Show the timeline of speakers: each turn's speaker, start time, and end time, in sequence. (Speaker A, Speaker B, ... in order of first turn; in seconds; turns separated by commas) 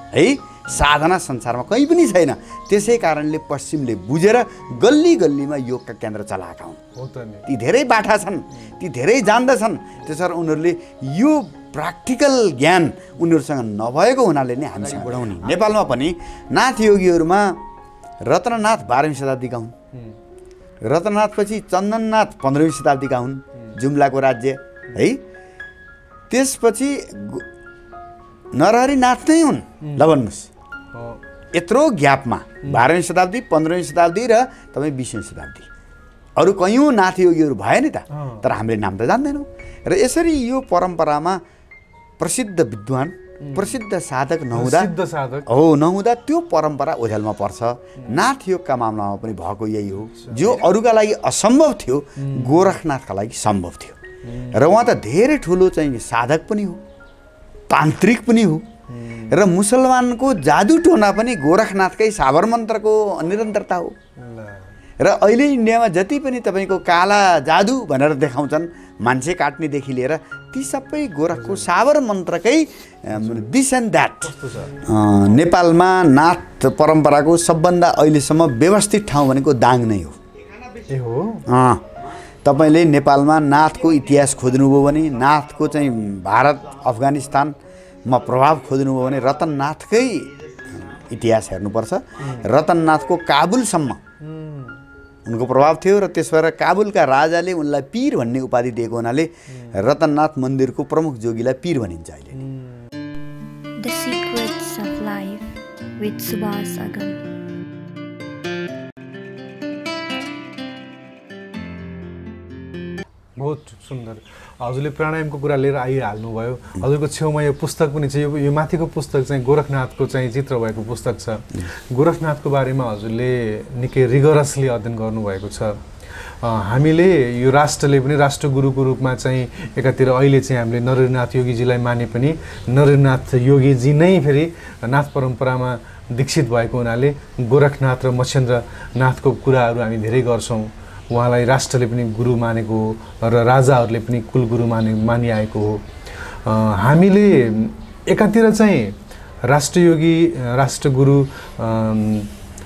Speaker A: 0.1-6.8, Speaker B: 6.9-7.5, Speaker A: 7.5-17.6, Speaker A: 18.2-19.7, Speaker A: 20.9-25.2, Speaker A: 26.3-27.4, Speaker A: 28.5-30.5, Speaker B: 29.8-30.1, Speaker B: 30.9-31.2, Speaker A: 31.5-35.7, Speaker A: 36.4-41.4, Speaker B: 38.1-38.5, Speaker A: 42.2-44.9, Speaker B: 43.4-43.8, Speaker B: 44.5-45.5, Speaker A: 45.5-54.0, Speaker B: 50.0-50.6, Speaker B: 52.2-52.7, Speaker B: 54.2-54.8, Speaker A: 54.5-56.8, Speaker A: 57.7-58.6, Speaker B: 58.9-59.4, Speaker A: 59.3-63.9, Speaker B: 64.2-64.7, Speaker A: 65.0-80.2, Speaker B: 71.3-71.7, Speaker B: 73.2-73.4, Speaker B: 74.2-74.8, Speaker B: 80.9-81.5, Speaker A: 81.5-94.0, Speaker B: 92.2-92.5, Speaker B: 94.2-94.8, Speaker A: 95.2-102.4, Speaker B: 102.3-102.7, Speaker C: 103.8-107.2, Speaker B: 113.4-145.8, Speaker B: 146.4-152.3